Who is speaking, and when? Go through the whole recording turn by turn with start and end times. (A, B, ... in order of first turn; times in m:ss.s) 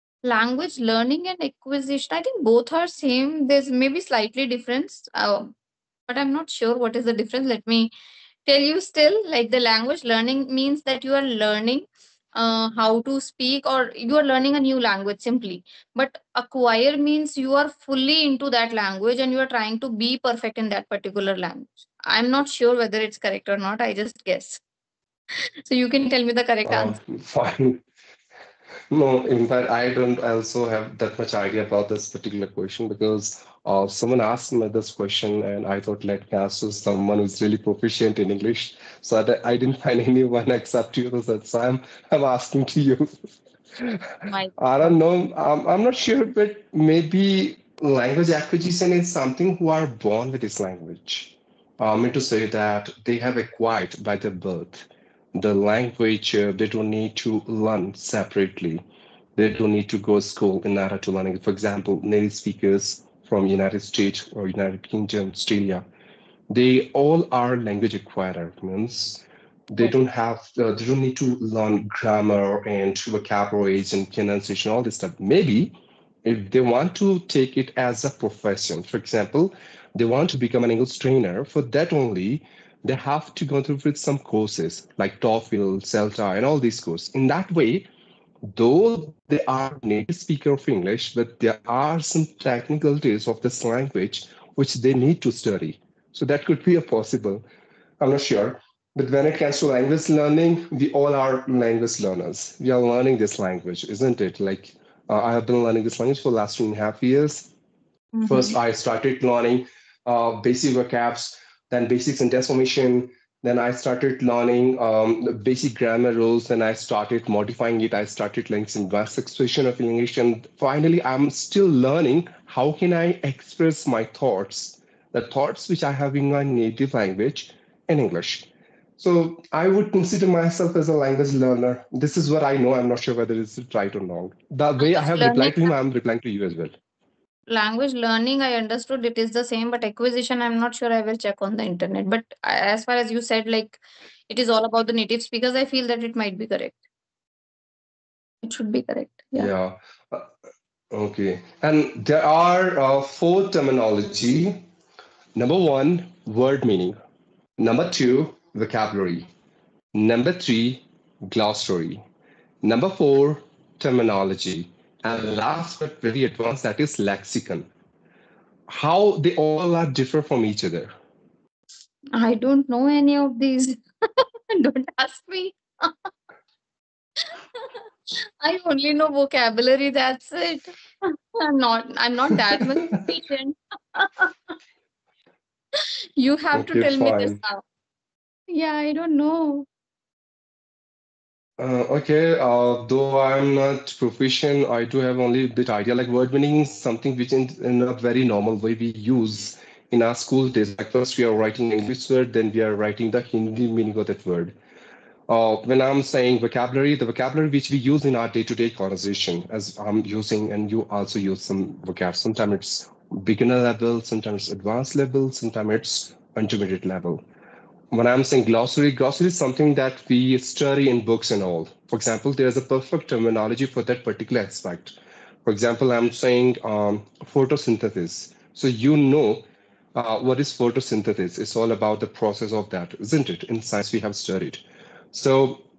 0:00.2-0:05.5 A
0:06.1-0:07.9 A
0:08.4-0:24.6 A
0:25.6-0:27.0 A
0:26.6-0:27.8 B
0:28.9-0:58.8 B
0:44.3-0:45.0 A
0:59.4-1:05.8 B
1:06.5-1:27.9 B
1:28.5-1:37.4 B
1:38.0-1:47.5 B
1:48.1-1:48.6 A
1:48.2-2:08.5 B
2:09.0-2:16.8 B
2:14.8-2:15.7 A
2:17.5-2:26.8 A
2:28.4-2:29.5 A
2:29.3-2:30.3 B
2:30.9-2:34.6 B
2:35.4-2:37.0 B
2:37.6-2:39.3 B
2:39.9-2:42.0 B
2:42.6-2:47.7 B
2:48.7-2:50.9 B
2:52.2-2:56.1 A
2:57.2-3:04.5 A
3:02.6-3:02.9 B
3:05.7-3:07.6 A
3:06.5-3:07.4 B
3:08.5-3:09.7 A
3:11.6-3:24.5 B
3:25.3-3:37.2 B
3:37.9-3:55.6 B